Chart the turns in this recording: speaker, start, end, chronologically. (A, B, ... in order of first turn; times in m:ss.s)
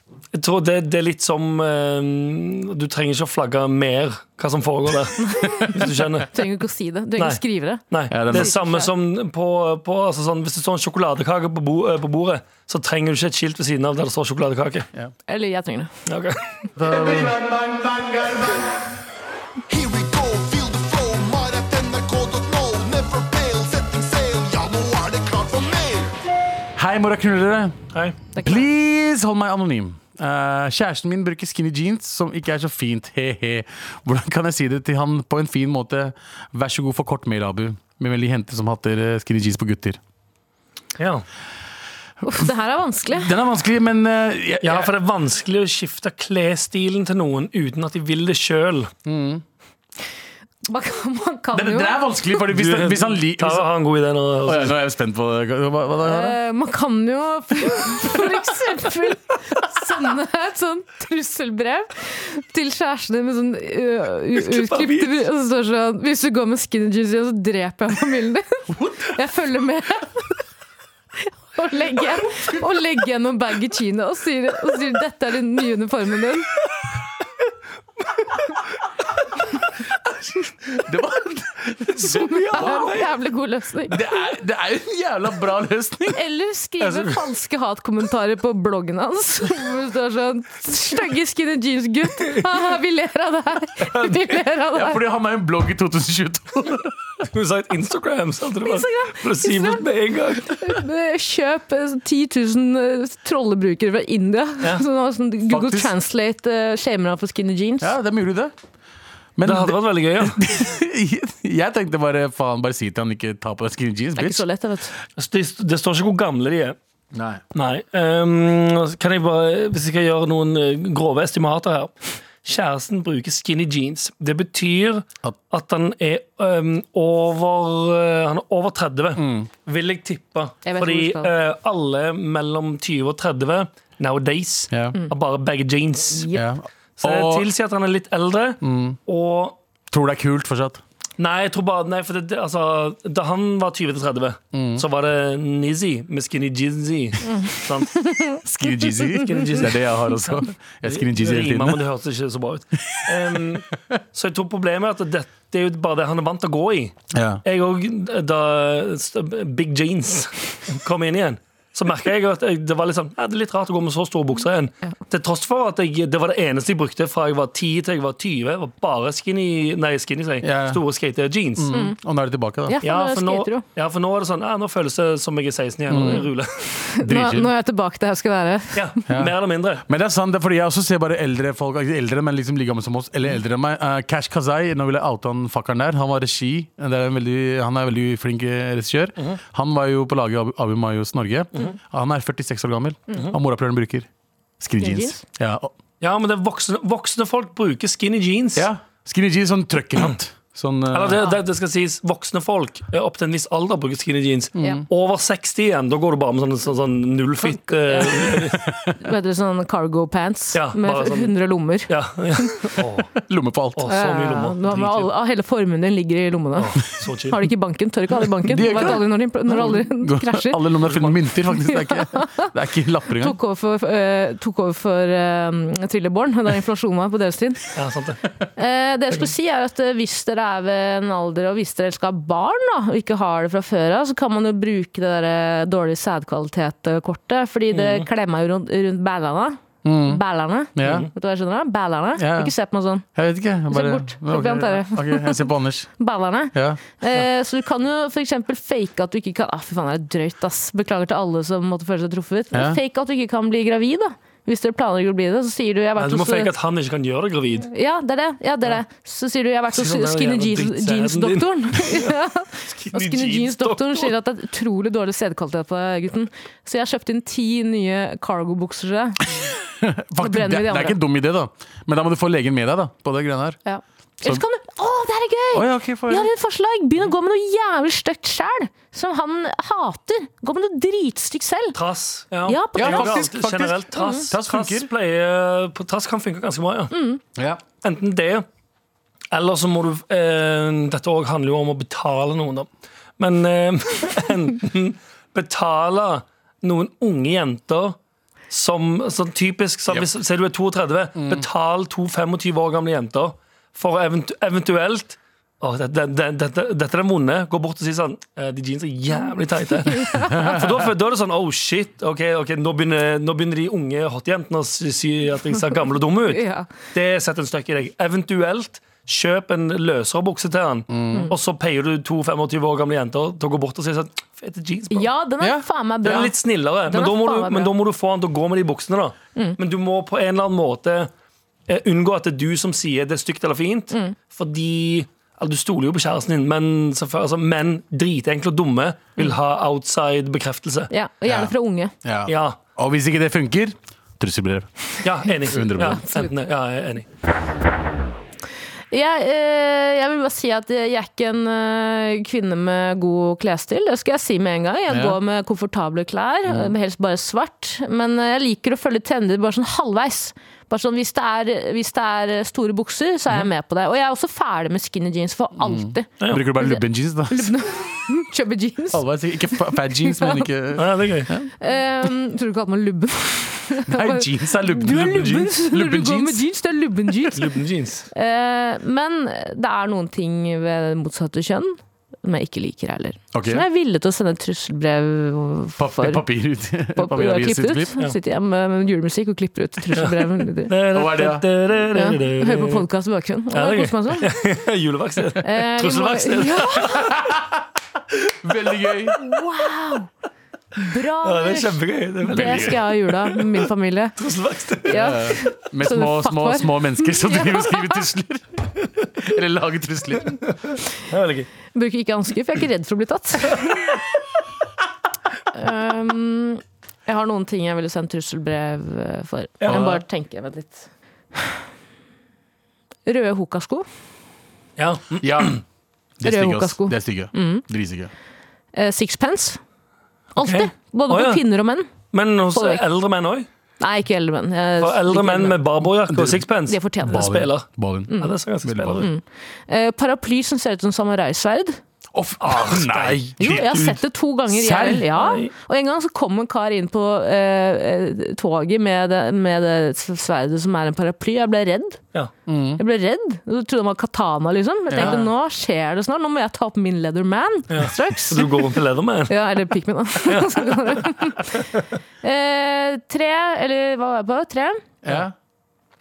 0:00.3-0:06.3 A
0:05.3-0:05.6 B
0:06.3-0:08.9 B
0:07.2-0:14.9 A
0:08.1-0:08.5 C
0:15.3-0:15.9 B
0:16.0-0:16.4 A
0:16.8-0:18.8 C
0:19.7-0:26.2 D
0:26.8-0:27.8 C
0:28.4-0:28.6 B
0:28.4-0:40.0 C
0:41.0-0:41.2 A
0:42.2-0:43.3 B
0:43.1-0:44.9 C
0:44.6-0:48.9 A
0:49.0-0:49.4 C
0:50.6-0:52.1 B
0:51.5-0:53.7 C
0:52.5-0:54.8 A
0:54.4-0:56.4 C
0:56.0-1:10.3 B
1:04.4-1:05.2 A
1:08.7-1:09.2 C
1:11.2-1:16.5 B
1:20.0-1:23.0 C
1:22.0-1:23.1 A
1:22.1-1:24.0 B
1:23.9-1:26.2 C
1:26.1-1:35.0 B
1:26.8-1:27.2 A
1:34.7-1:37.2 C
1:37.2-1:40.6 A
1:38.6-1:39.9 B
1:40.4-1:47.9 B
1:45.5-1:45.9 C
1:47.8-1:48.5 C
1:49.4-1:54.4 C
1:49.4-1:50.4 A
1:54.2-1:54.9 B
1:55.2-1:56.8 A
1:57.1-1:57.4 C
1:57.5-2:01.9 A
2:02.4-2:16.3 A
2:09.2-2:09.5 C
2:10.6-2:11.3 B
2:16.1-2:16.4 B
2:16.3-2:17.5 C
2:17.0-2:19.6 A
2:18.6-2:19.0 C
2:19.9-2:20.8 C
2:21.2-2:28.0 A
2:24.5-2:24.8 C
2:27.3-2:28.4 B
2:28.4-2:31.8 C
2:29.1-2:51.7 A
2:33.1-2:33.4 C
2:37.1-2:37.4 C
2:50.4-2:50.8 C
2:51.6-2:52.8 C
2:51.7-2:52.0 B
2:52.7-2:53.6 B
2:52.8-2:56.9 A
2:55.9-2:56.3 C
2:56.9-2:58.9 B
2:57.0-2:57.5 C
2:58.7-2:59.8 A
2:59.1-3:14.1 C
3:14.6-3:15.7 C
3:14.8-3:15.2 B
3:16.0-3:18.7 A
3:18.6-3:21.3 C
3:20.9-3:28.6 A
3:24.6-3:24.8 C
3:27.9-3:28.2 B
3:28.9-3:32.5 B
3:30.5-3:31.3 A
3:31.9-3:33.1 A
3:33.2-3:33.9 C
3:33.8-3:35.1 A
3:33.8-3:40.6 B
3:36.6-3:37.4 A
3:38.5-3:43.4 C
3:40.8-3:41.2 A
3:41.6-3:42.5 B
3:43.2-3:47.7 B
3:47.7-3:48.2 A
3:48.6-4:03.0 B
3:57.7-3:58.1 A
3:59.8-4:00.2 C
4:00.7-4:01.1 C
4:00.8-4:01.1 A
4:02.2-4:02.5 C
4:03.1-4:05.9 C
4:03.7-4:16.5 B
4:06.5-4:06.8 C
4:12.5-4:12.8 C
4:16.0-4:17.7 A
4:17.6-4:29.2 B
4:19.7-4:24.1 A
4:29.3-4:33.6 C
4:30.2-4:31.0 B
4:33.6-4:41.8 B
4:35.5-4:36.3 C
4:41.7-4:46.9 A
4:42.4-4:43.3 B
4:42.8-4:44.9 C
4:44.0-4:44.2 B
4:46.9-4:47.2 B
4:47.4-4:47.6 C
4:47.8-4:48.4 A
4:49.3-4:58.0 A
4:58.5-5:25.1 A
5:01.2-5:01.4 C
5:09.8-5:10.6 B
5:10.2-5:10.8 C
5:16.3-5:16.7 B
5:20.9-5:21.3 C
5:24.9-5:27.7 B
5:25.4-5:26.3 C
5:26.0-5:31.1 A
5:31.7-5:40.9 A
5:40.9-5:41.9 B
5:41.2-5:41.5 C
5:42.0-5:44.7 C
5:42.2-5:42.6 A
5:45.0-5:47.0 A
5:45.4-5:46.0 C
5:46.0-5:46.3 B
5:48.9-6:10.5 B
5:54.9-5:55.2 C
6:05.6-6:07.7 C
6:08.9-6:11.5 C
6:10.8-6:11.3 A
6:11.6-6:17.5 B
6:13.8-6:16.4 C
6:14.9-6:15.4 A
6:17.3-6:18.0 A
6:18.1-6:26.2 B
6:23.3-6:23.6 C
6:25.8-6:28.0 C
6:26.9-6:30.7 B
6:29.9-6:32.8 A
6:30.9-6:31.5 C
6:31.9-6:34.4 B
6:33.5-6:37.1 A
6:35.4-6:37.2 B
6:36.9-6:37.6 C
6:38.2-6:39.2 C
6:39.2-6:40.1 B
6:40.8-6:44.2 B
6:41.2-6:43.5 A
6:42.2-6:42.8 C
6:44.2-6:45.2 A
6:44.9-6:48.0 B
6:44.9-6:50.4 C
6:51.1-6:51.5 A
6:51.7-6:54.0 B
6:55.5-7:01.6 B
6:59.6-6:59.8 A
6:59.7-7:00.0 C
7:03.0-7:03.8 B
7:04.8-7:05.6 A
7:05.2-7:05.6 C
7:06.2-7:08.1 C
7:06.2-7:07.6 B
7:08.7-7:09.6 B
7:10.4-7:11.9 B
7:10.4-7:11.4 A
7:12.1-7:13.5 A
7:12.5-7:12.8 B
7:13.8-7:15.6 B
7:14.8-7:19.1 A
7:16.1-7:16.4 C
7:16.7-7:17.3 B
7:17.0-7:19.1 C
7:18.1-7:18.3 B
7:19.0-7:21.8 B
7:22.1-7:23.7 C
7:22.4-7:24.0 A
7:23.4-7:32.0 B
7:24.5-7:25.1 C
7:25.1-7:25.5 A
7:32.5-7:32.8 C
7:32.8-7:38.6 B
7:34.9-7:35.2 C
7:35.0-7:35.2 A
7:37.7-7:39.5 A
7:39.3-7:41.7 B
7:40.2-7:41.1 A
7:42.2-7:44.8 B
7:45.0-7:45.3 C